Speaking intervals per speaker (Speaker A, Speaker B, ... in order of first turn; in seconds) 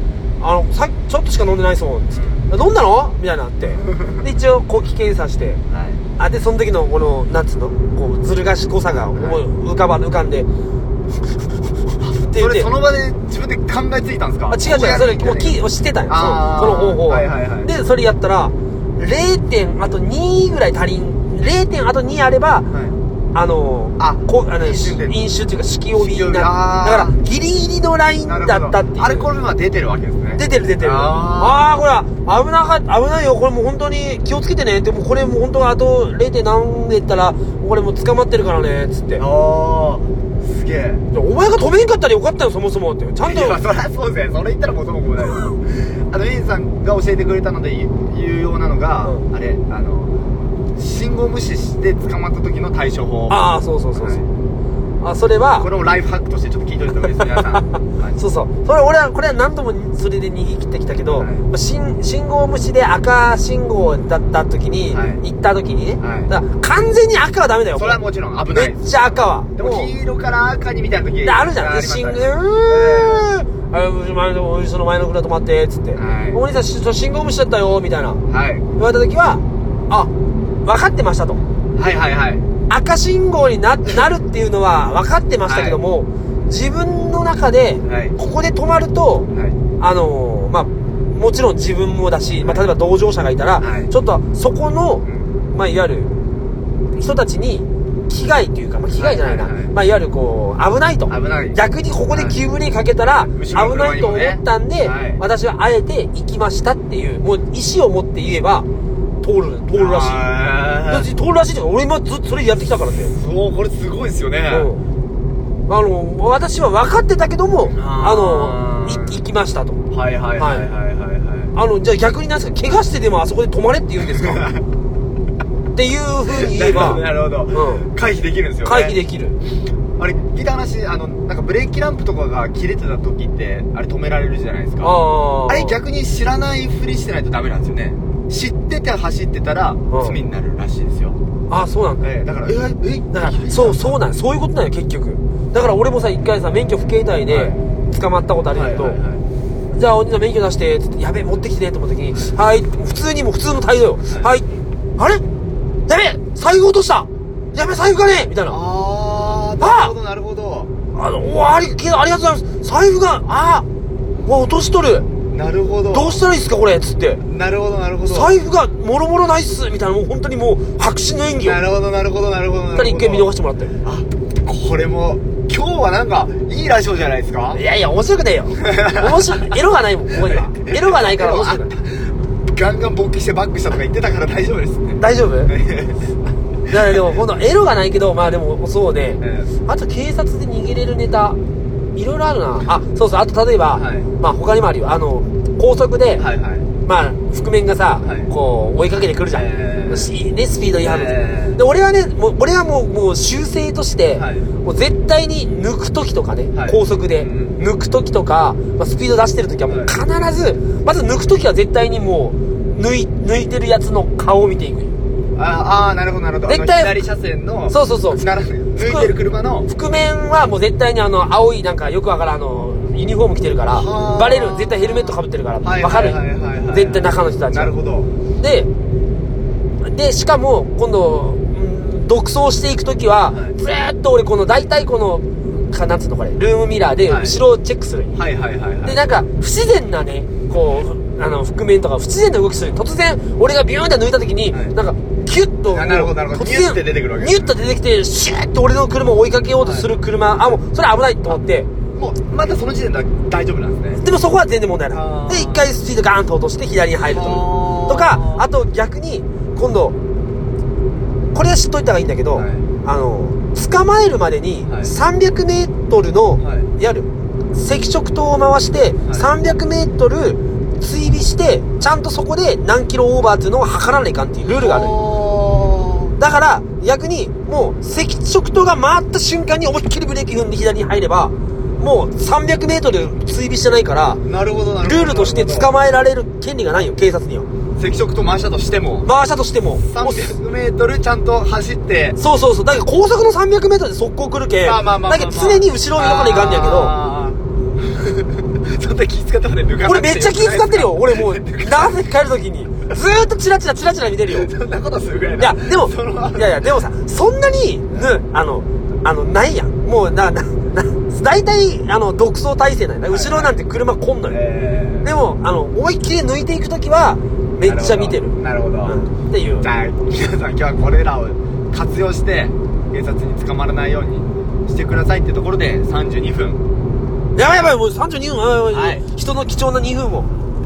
Speaker A: 0.4-5.6, 6.2-10.5, 12.1-12.7, 14.5-22.7, 23.3-29.3, 30.4-39.2, 41.1-43.6, 53.3-54.2, 55.0-55.7, 57.1-68.0, 68.5-69.9, 71.2-78.2, 78.8-80.1, 80.7-81.4, 82.7-89.3, 89.8-96.2, 97.0-108.7, 109.2-110.3, 110.9-113.2, 114.5-114.8, 115.7-119.8, 120.4-120.7, 121.5-124.5, 125.8-127.9, 128.7-129.4, 134.8-135.8, 139.9-140.2, 141.5-142.1, 143.1-149.0, 149.7-155.2, 155.9-158.6, 159.6-159.9, 160.9-163.7, 164.2-165.1, 165.9-167.2, 168.1-171.6, 172.8-173.8, 177.5-181.7, 185.0-185.5, 186.7-191.4, 192.0-196.3, 196.8-214.9, 216.4-217.0, 217.7-218.2, 218.8-219.1, 219.7-227.7, 228.4-228.7, 229.8-238.2, 238.8-251.7, 254.0-260.0, 261.3-275.0, 276.2-284.2, 284.8-287.5, 289.0-290.4, 292.2-297.0, 299.8-304.5, 305.4-314.4, 315.0-319.7, 327.4-330.3
Speaker B: 2.1-2.5, 3.8-4.2, 5.7-6.0, 9.1-9.4, 12.2-17.7, 22.7-23.0, 24.0-25.2, 25.9-27.2, 28.2-31.8, 39.2-41.1, 43.2-50.2, 50.8-54.3, 55.6-58.3, 61.1-61.5, 64.9-65.2, 66.0-66.3, 67.8-73.3, 76.0-76.4, 78.3-78.7, 81.8-82.5, 85.4-85.8, 87.8-88.2, 89.3-89.6, 92.4-92.7, 93.6-93.9, 95.0-95.3, 99.0-99.7, 101.1-102.4, 103.2-105.2, 109.7-111.1, 113.1-114.7, 117.7-119.2, 119.9-121.5, 124.1-124.6, 126.3-129.0, 130.0-134.9, 135.5-141.2, 142.0-144.0, 147.3-147.6, 148.5-149.2, 158.5-160.7, 165.3-166.2, 167.3-168.4, 171.4-173.3, 173.8-177.6, 178.7-179.4, 180.1-186.8, 189.2-189.5, 193.7-194.1, 196.2-196.7, 198.0-198.3, 199.3-200.2, 200.8-201.6, 204.2-204.5, 206.5-207.6, 209.7-210.0, 215.3-219.7, 223.7-228.1, 233.3-233.6, 237.1-237.4, 238.1-239.0, 245.7-247.5, 249.6-249.9, 251.9-254.0, 254.9-255.8, 257.1-258.5, 262.4-262.7, 264.7-264.9, 266.4-266.7, 274.4-276.1, 284.2-285.7, 287.8-289.1, 289.8-292.2, 294.6-302.0, 304.3-306.7, 313.1-313.6, 314.3-315.1, 317.6-319.0, 319.6-326.6, 328.7-329.0